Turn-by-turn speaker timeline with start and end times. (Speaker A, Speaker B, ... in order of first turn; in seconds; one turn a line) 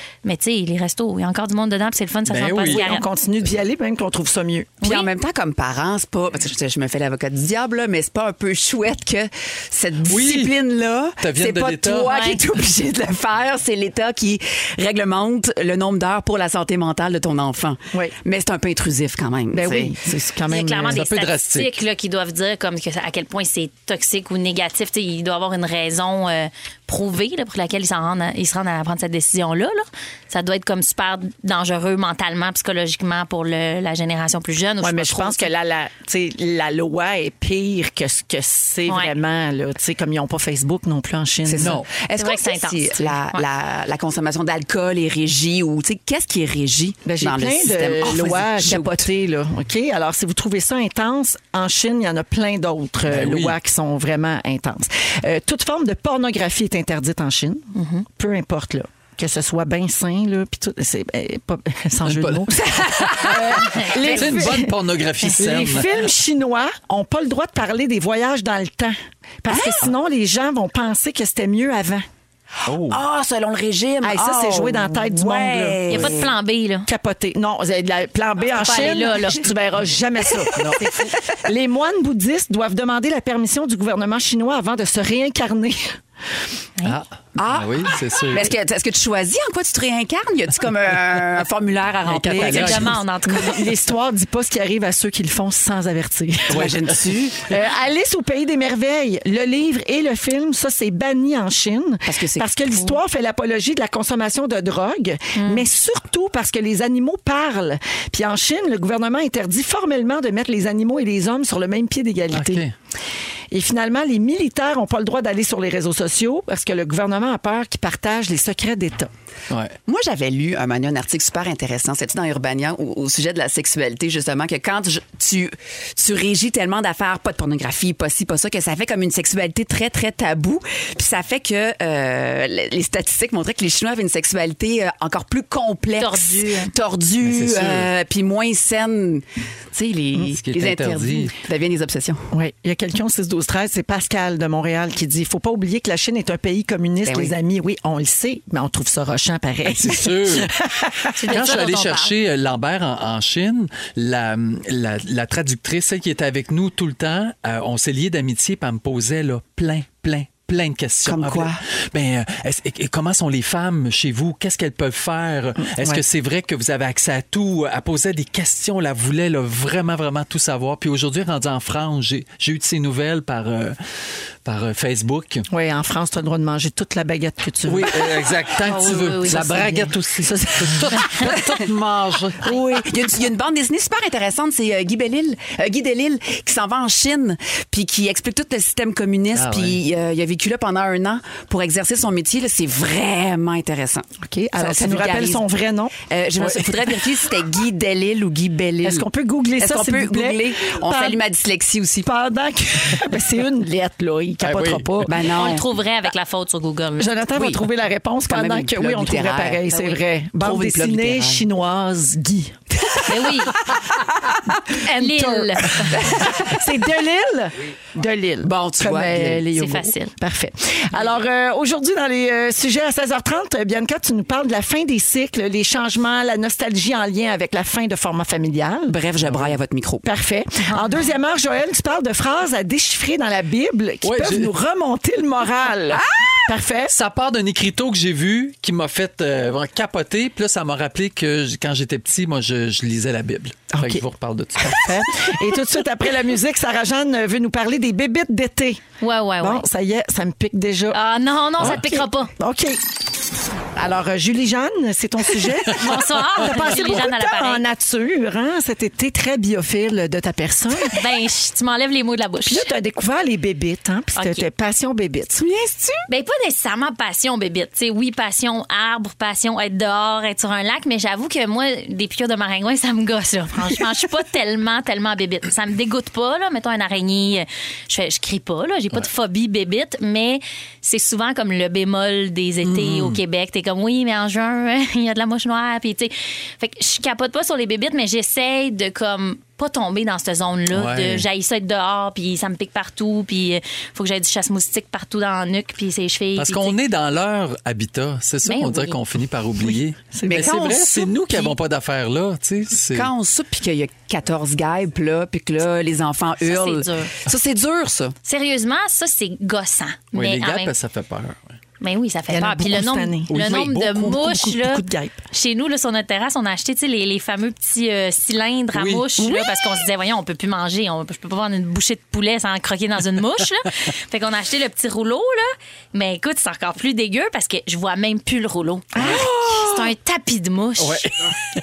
Speaker A: 0.2-3.0
Speaker B: 2.3-2.9
Speaker C: 2.6-4.8
Speaker D: 4.8-19.9
Speaker B: 10.1-10.5
Speaker B: 11.2-12.1
Speaker A: 12.1-12.4
Speaker C: 19.5-21.0
Speaker A: 20.5-35.5
Speaker B: 20.9-21.8
Speaker C: 34.8-41.8
Speaker A: 38.9-39.1
Speaker D: 41.5-49.1
Speaker B: 41.6-41.9
Speaker A: 42.2-43.4
Speaker C: 47.1-72.0
Speaker B: 53.1-53.6
Speaker A: 57.8-58.0
Speaker B: 62.0-62.5
Speaker D: 62.6-64.5
Speaker B: 64.0-65.9
Speaker D: 69.5-69.9
Speaker B: 72.7-73.0
Speaker D: 72.8-76.3
Speaker C: 74.0-76.2
Speaker A: 75.9-76.9
Speaker C: 76.9-80.8
Speaker A: 78.6-79.4
Speaker B: 80.6-80.8
Speaker C: 81.4-86.0
Speaker B: 86.8-88.5
Speaker D: 87.4-93.0
Speaker B: 92.1-93.0
Speaker C: 92.2-96.7
Speaker A: 92.4-93.7
Speaker D: 96.5-97.5
Speaker B: 96.5-96.8
Speaker C: 97.5-112.6
Speaker D: 102.1-102.6
Speaker A: 105.4-105.7
Speaker B: 112.3-112.7
Speaker C: 113.5-119.1
Speaker B: 119.5-119.8
Speaker D: 119.9-142.3
Speaker A: 136.0-136.7
Speaker B: 137.2-137.9
Speaker B: 140.3-141.3
Speaker C: 142.3-151.1
Speaker D: 147.1-147.3
Speaker B: 149.7-150.5
Speaker A: 151.2-152.1
Speaker B: 151.3-173.8
Speaker D: 161.1-161.6
Speaker C: 165.6-166.0
Speaker B: 174.4-175.5
Speaker C: 175.5-178.3
Speaker B: 177.7-182.6
Speaker A: 178.7-179.4
Speaker C: 179.3-181.3
Speaker D: 182.4-195.4
Speaker B: 189.3-189.8
Speaker C: 194.2-195.9
Speaker D: 196.1-199.1
Speaker C: 198.8-201.2
Speaker D: 199.6-202.1
Speaker C: 202.0-205.1
Speaker B: 204.4-204.9
Speaker D: 205.1-205.6
Speaker A: 205.3-207.1
Speaker C: 207.0-212.6
Speaker D: 207.3-207.7
Speaker D: 208.3-209.7
Speaker A: 209.7-210.0
Speaker D: 210.4-211.4
Speaker A: 213.1-213.5
Speaker A: 214.8-216.0
Speaker C: 215.0-229.0
Speaker D: 215.9-216.5
Speaker D: 218.4-219.4
Speaker A: 219.6-220.1
Speaker D: 228.9-230.1
Speaker B: 229.3-229.6
Speaker C: 230.0-236.9
Speaker A: 230.7-231.1
Speaker B: 234.0-234.5
Speaker D: 235.9-236.4
Speaker B: 236.9-245.1
Speaker C: 243.7-244.0
Speaker C: 244.6-248.8
Speaker A: 249.0-249.7
Speaker C: 249.4-251.0
Speaker A: 250.9-252.3
Speaker C: 251.6-252.8
Speaker C: 253.8-261.0
Speaker A: 255.7-257.6
Speaker A: 260.9-262.7
Speaker C: 262.5-265.4
Speaker A: 264.2-264.5
Speaker D: 265.4-266.1
Speaker A: 266.1-296.8
Speaker B: 282.6-283.2
Speaker B: 290.7-291.3
Speaker B: 296.4-303.1
Speaker A: 298.4-299.0
Speaker C: 300.1-300.8
Speaker D: 300.3-301.5
Speaker D: 302.9-308.1
Speaker A: 306.4-307.1
Speaker A: 308.2-310.8
Speaker B: 310.1-311.4
Speaker A: 311.8-331.1
Speaker C: 312.3-315.2
Speaker B: 313.3-314.2
Speaker B: 318.7-319.4
Speaker C: 329.0-329.2
Speaker D: 329.0-329.7
Speaker B: 330.8-331.4